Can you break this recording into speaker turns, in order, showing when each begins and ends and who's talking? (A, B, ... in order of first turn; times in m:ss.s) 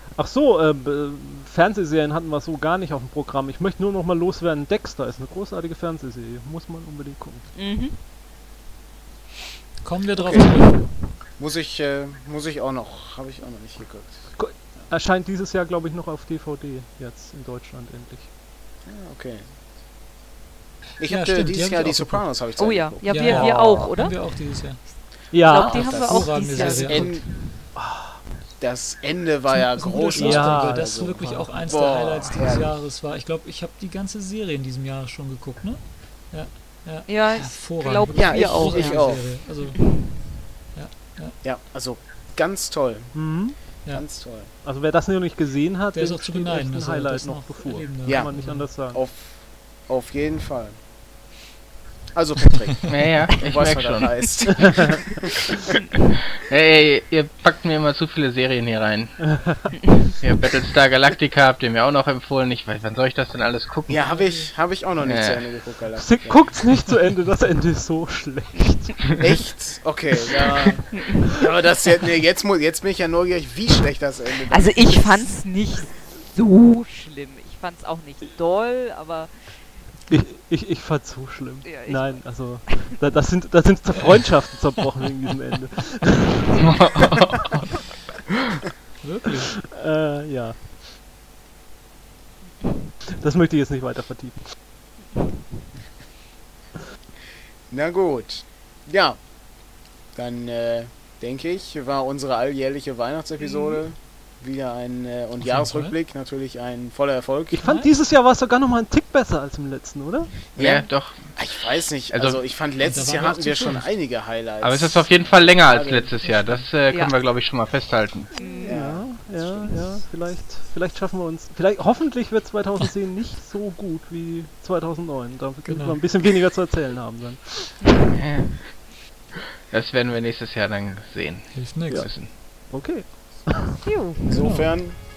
0:00.1-0:07.5 A
0:07.6-0:08.0 B
0:09.8-0:10.9 C
0:10.2-0:14.3 D
0:14.4-0:18.3 A
0:18.8-0:19.4 D
0:21.0-0:23.3 D
0:21.1-0:22.2 C
0:22.6-0:24.9 B
0:23.0-0:24.9 C
0:23.2-0:23.9 A
0:25.3-0:26.1 A
0:25.4-0:27.4 B
0:25.4-0:27.3 C
0:25.6-0:27.3 D
0:27.7-0:28.2 A
0:28.6-0:32.8 D
0:29.5-0:40.2 C
0:30.2-0:31.6 A
0:37.1-0:40.3 B
0:38.1-0:39.4 D
0:40.7-0:41.4 C
0:41.4-0:44.5 D
0:43.1-0:43.7 A
0:44.6-0:49.0 A
0:45.9-0:48.7 C
0:48.0-0:48.3 D
0:48.9-0:50.8 D
0:52.1-0:55.6 D
0:52.9-0:54.2 E
0:54.6-0:54.9 A
0:56.4-0:59.2 E
0:59.2-0:59.7 A
1:00.2-1:04.0 E
1:03.9-1:06.5 D
1:05.0-1:05.4 E
1:06.0-1:09.2 A
1:09.1-1:15.4 D
1:10.9-1:11.2 B
1:14.5-1:19.6 B
1:20.1-1:26.7 A
1:21.6-1:22.7 B
1:26.6-1:27.4 E
1:29.0-1:29.5 C
1:29.3-1:30.7 A
1:33.1-1:34.6 A
1:37.7-1:39.2 D
1:40.2-1:47.6 D
1:43.4-1:43.8 B
1:45.4-1:45.9 C
1:47.5-1:50.4 A
1:47.6-1:47.9 C
1:50.6-1:56.3 D
1:50.6-1:51.4 E
1:52.1-1:52.4 E
1:52.8-1:53.8 C
1:54.6-1:58.3 E
1:58.4-1:58.8 B
1:58.4-2:07.8 A
1:58.6-1:59.7 D
2:05.6-2:06.0 C
2:08.2-2:08.6 E
2:09.7-2:12.3 E
2:11.5-2:12.1 C
2:11.9-2:13.8 A
2:13.8-2:14.5 B
2:14.3-2:15.0 D
2:14.4-2:14.7 C